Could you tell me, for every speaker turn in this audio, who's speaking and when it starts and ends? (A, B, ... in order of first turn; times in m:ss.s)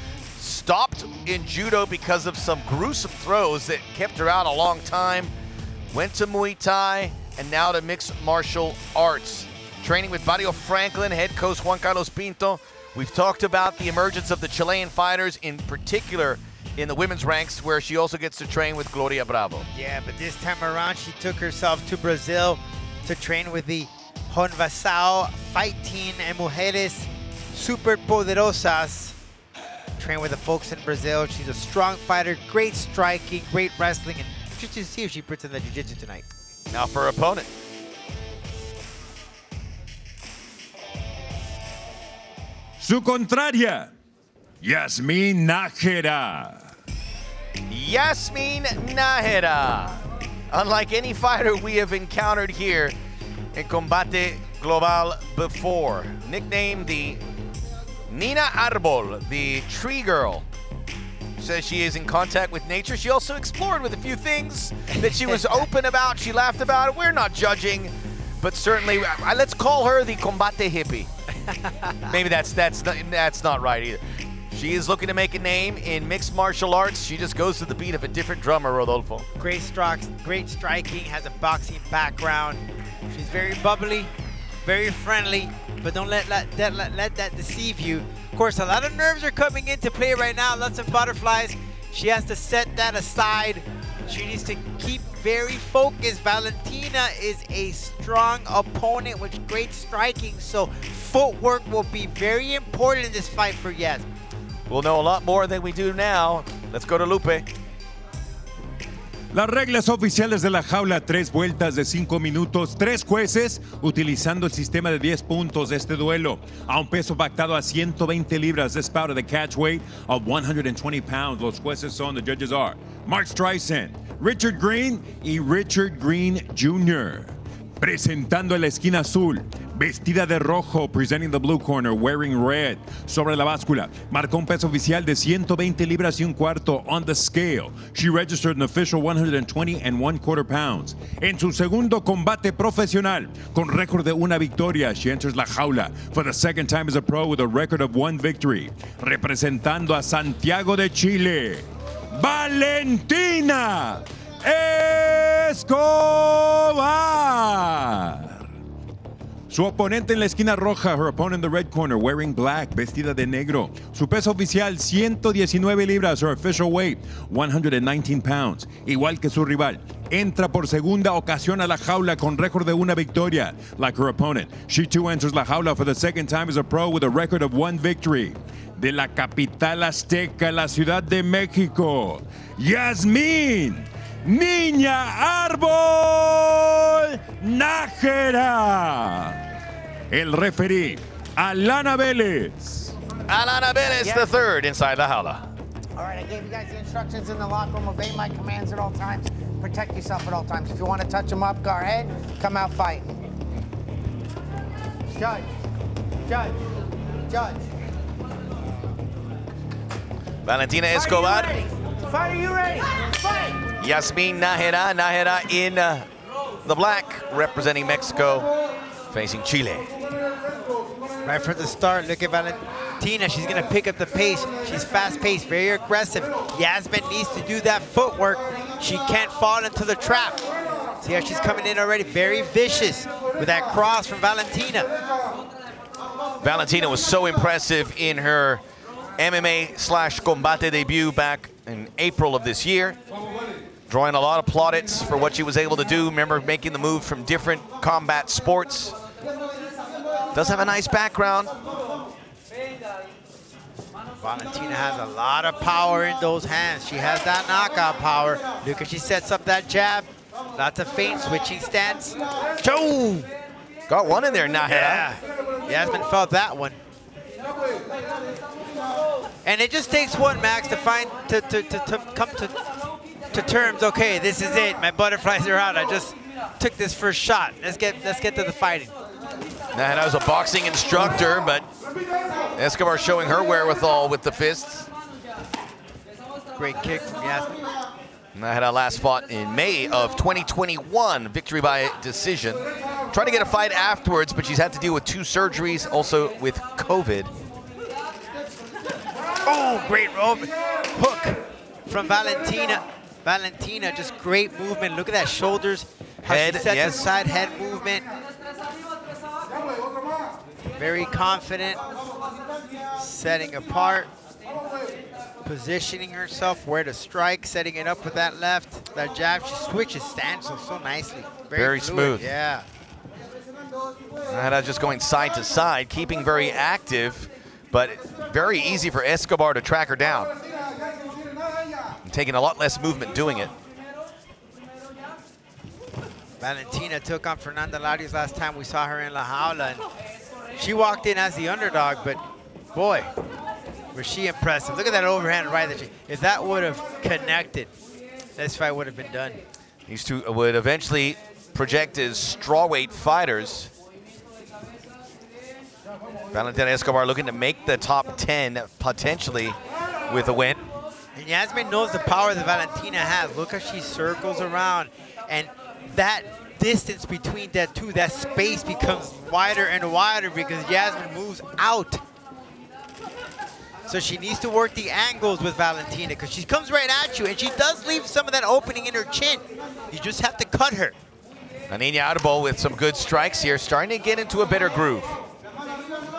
0:00.4-0:05.3 A
0:05.9-0:19.7 A
0:19.7-0:29.2 B
0:30.0-0:36.2 B
0:36.7-0:37.5 A
0:42.8-0:43.9 C
0:44.6-0:46.6 C
0:47.7-0:52.9 A
0:53.5-0:57.2 A
0:58.1-1:00.4 A
1:01.4-1:11.1 A
1:05.0-1:05.6 B
1:11.5-1:12.1 B
1:12.1-1:19.2 A
1:19.4-1:24.1 B
1:24.6-1:44.0 B
1:44.7-1:47.4 A
1:49.3-2:38.4 C
2:39.5-3:09.4 C
3:10.1-3:12.9 C
3:13.3-3:15.4 A
3:14.0-3:14.3 D
3:16.0-3:23.2 D
3:25.1-3:25.5 D
3:26.2-3:26.6 D
3:27.3-3:27.6 D
3:30.4-3:31.6 A
3:30.9-3:33.6 D
3:33.8-3:36.0 A
3:36.6-3:38.5 A
3:39.1-3:39.9 A
3:41.2-3:50.4 B
3:51.0-3:54.9 B
3:56.4-3:58.6 A
3:59.2-4:03.0 A
4:03.9-4:08.9 A
4:10.3-4:11.5 A
4:14.2-4:23.2 B
4:23.9-4:25.1 A
4:24.7-4:26.8 B
4:29.4-4:32.6 B
4:33.3-4:38.9 B
4:39.7-4:41.6 A
4:42.6-4:44.9 A
4:46.6-4:47.6 B
4:48.3-4:57.3 A
4:59.4-5:08.1 B
5:06.2-5:07.0 A
5:10.8-5:11.8 B
5:13.0-5:14.1 B
5:15.4-5:22.6 B
5:21.5-5:22.3 A
5:24.3-5:30.3 A
5:32.0-5:33.5 A
5:36.4-5:39.8 B
5:40.6-5:42.2 B
5:42.7-5:43.1 B
5:43.9-5:47.7 B
5:48.4-5:49.4 B
5:49.9-5:53.7 A
5:56.3-5:59.6 A
6:00.1-6:00.7 A
6:01.2-6:12.0 B
6:13.9-6:20.9 B
6:21.7-6:25.2 A